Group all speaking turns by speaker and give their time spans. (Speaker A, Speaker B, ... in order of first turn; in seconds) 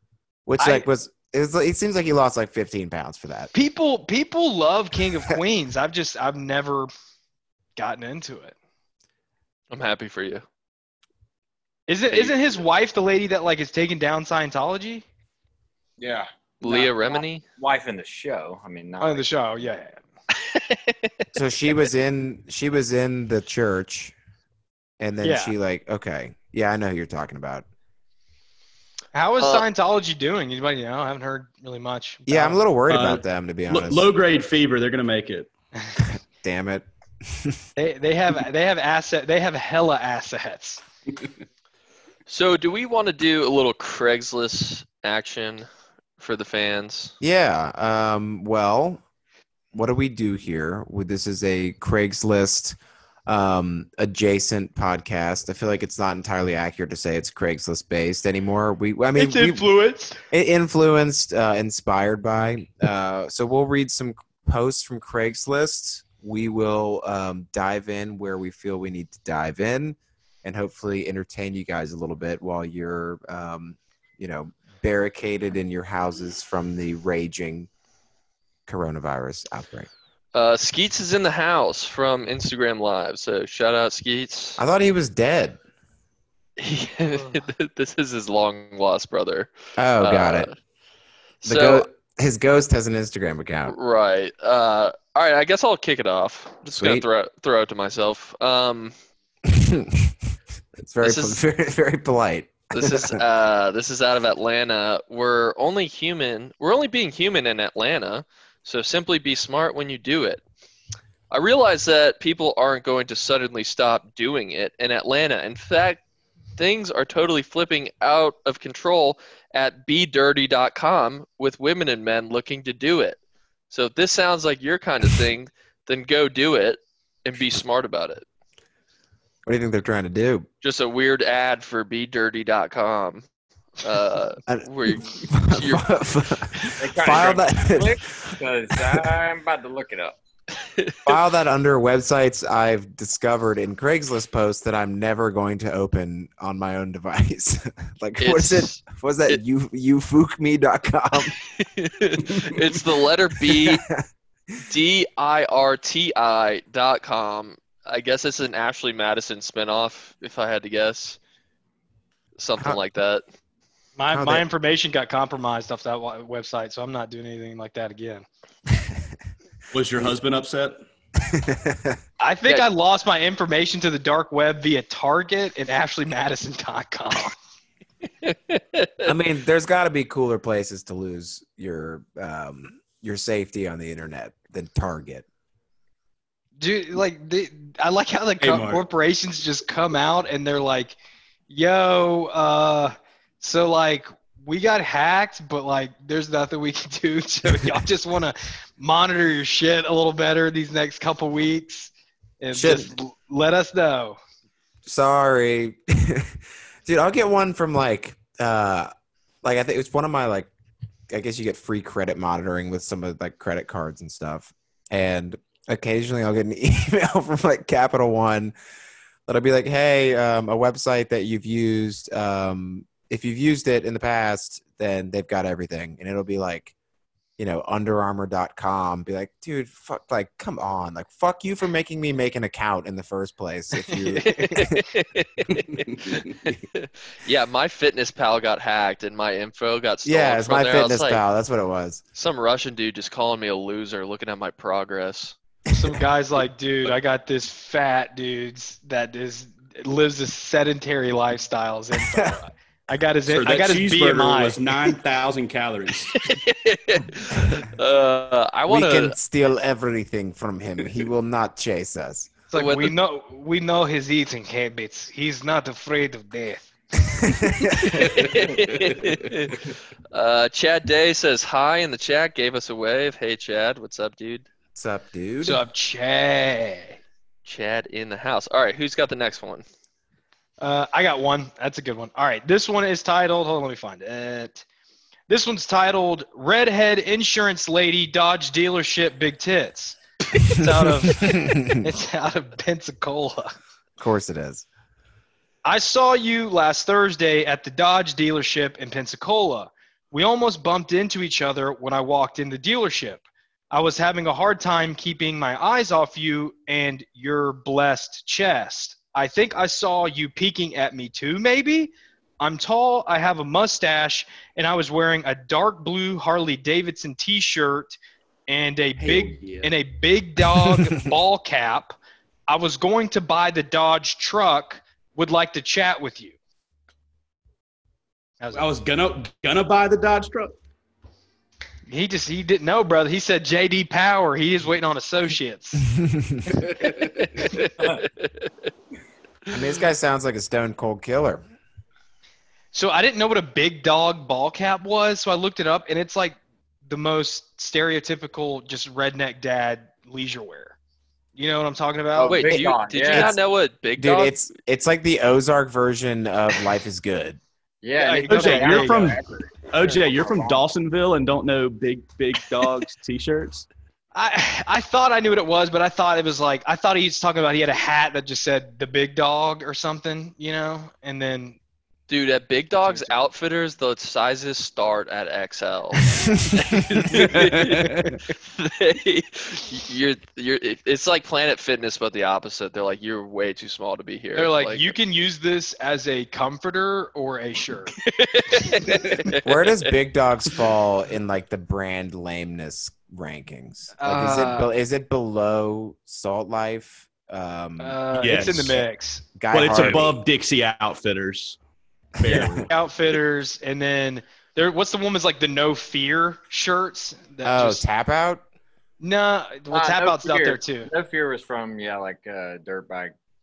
Speaker A: 0.5-3.5, 21.3-24.1, 25.0-27.6, 32.3-34.0, 36.0-37.6, 47.2-49.0, 49.7-59.6, 60.3-77.7, 78.7-79.9, 84.6-85.6, 89.8-90.5, 91.4-93.7, 96.7-97.0, 99.4-100.2, 100.8-103.2, 129.4-130.5, 134.5-139.1, 141.1-151.3, 153.5-154.0, 164.1-164.4, 171.2-172.0, 179.0-185.2, 202.5-202.9, 204.8-208.9, 209.4-210.5, 211.1-218.5, 219.3-226.7, 227.4-234.8, 240.0-242.0, 258.7-262.3, 267.2-268.0, 274.7-275.6, 291.1-291.8, 294.0-294.6, 336.0-336.6, 339.5-341.4, 353.1-353.4, 354.0-357.4, 389.4-398.0, 399.4-400.2, 402.2-402.7, 407.4-408.4
Speaker B: 0.6-0.8, 3.5-6.9, 7.8-8.5, 11.9-15.0, 19.0-20.0, 25.2-25.5, 29.1-32.6, 37.8-40.8, 59.1-60.2, 164.0-168.2, 172.2-177.3, 186.6-190.9, 191.5-204.2, 233.8-234.7, 245.7-254.9, 262.5-268.0, 275.4-277.0, 280.6-284.6, 285.3-293.6, 295.6-318.0, 318.5-321.9, 322.5-326.4, 328.4-328.7, 331.9-335.9, 342.7-350.8, 351.4-352.5, 358.0-359.2, 364.1-371.6, 372.8-373.1, 384.3-387.9, 394.0-394.6, 397.8-399.2, 402.3-407.8, 409.0-410.9
Speaker C: 9.7-10.4, 16.6-17.4, 20.4-20.8, 29.4-29.6, 42.3-45.6, 46.2-47.1, 80.3-84.6, 86.6-90.5, 91.4-91.9, 93.7-98.9, 101.0-101.4, 102.7-110.4, 111.3-116.0, 116.6-123.2, 123.7-128.2, 130.6-133.2, 133.8-136.7, 148.2-149.4, 151.4-153.9, 154.7-161.2, 162.4-163.2, 178.2-179.1, 234.3-241.2, 242.1-245.3, 256.2-259.1, 262.5-262.9, 268.0-274.5, 277.4-279.6, 337.2-338.5, 352.3-354.4, 372.1-378.0, 378.5-384.9, 388.0-389.9, 394.3-394.6
Speaker D: 16.0-19.2, 136.8-140.2, 352.1-353.4, 357.8-360.6, 409.7-413.1
Speaker E: 32.9-35.5, 169.7-170.8, 188.4-188.8, 235.6-236.2, 253.3-256.2, 268.0-269.3, 319.0-319.7, 328.5-330.5, 336.5-337.3, 358.2-363.7, 376.9-378.2, 398.1-398.8, 399.5-401.6, 402.2-402.7